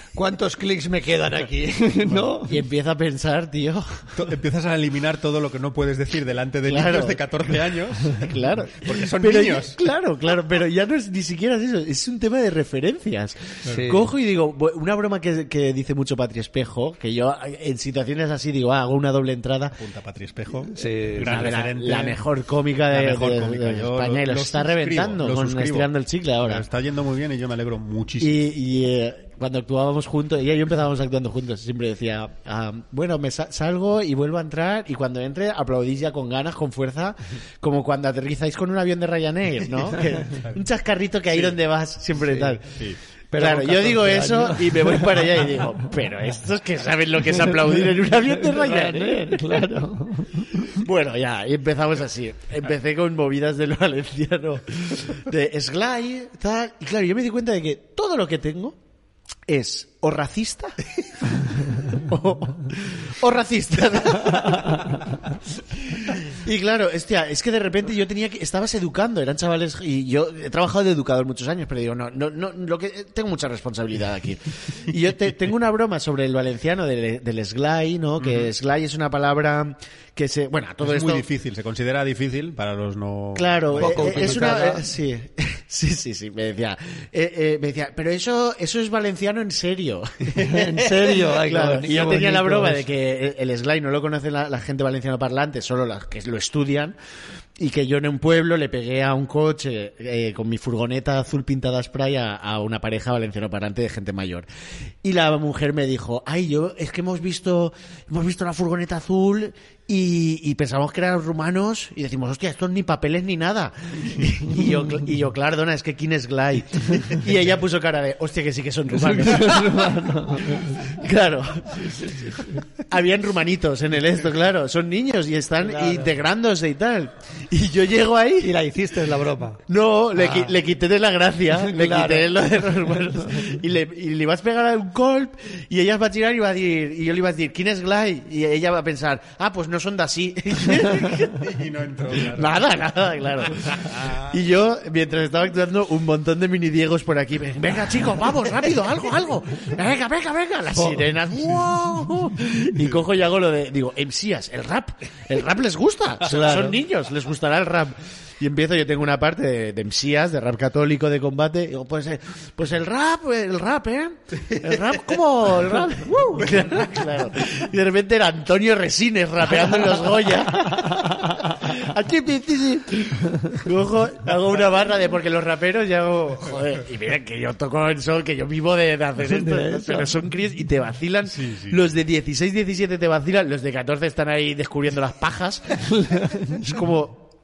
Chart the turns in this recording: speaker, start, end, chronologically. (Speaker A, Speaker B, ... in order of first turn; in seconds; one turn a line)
Speaker A: 0.1-2.5
Speaker B: 2.0-2.4
Speaker C: 2.4-4.2
Speaker B: 4.1-9.8
Speaker C: 6.7-7.2
Speaker C: 8.1-19.8
Speaker A: 13.7-14.1
Speaker B: 19.8-22.2
Speaker A: 20.7-21.5
Speaker C: 21.2-26.6
Speaker B: 22.9-28.5
Speaker C: 28.2-42.8
Speaker A: 42.2-42.6
Speaker A: 43.3-45.4
Speaker C: 43.3-50.0
Speaker A: 48.4-50.5
Speaker C: 50.5-58.8
Speaker C: 59.5-60.8
Speaker C: 61.3-65.0
Speaker C: 66.0-81.3
Speaker B: 78.2-78.5
Speaker B: 80.8-84.6
Speaker C: 83.3-97.0
Speaker A: 83.8-84.8
Speaker A: 90.3-92.8
Speaker C: 97.6-104.5
Speaker C: 105.0-122.1
Speaker A: 119.0-120.9
Speaker A: 121.8-122.6
Speaker C: 122.8-128.6
Speaker A: 125.6-126.1
Speaker A: 128.4-129.6
Speaker C: 129.7-141.4
Speaker A: 130.2-130.5
Speaker A: 131.6-132.3
Speaker B: 140.8-142.6
Speaker C: 142.1-187.3
Speaker B: 143.6-144.4
Speaker A: 156.3-156.8
Speaker A: 179.3-180.1
Speaker B: 181.3-181.8
Speaker A: 186.0-186.6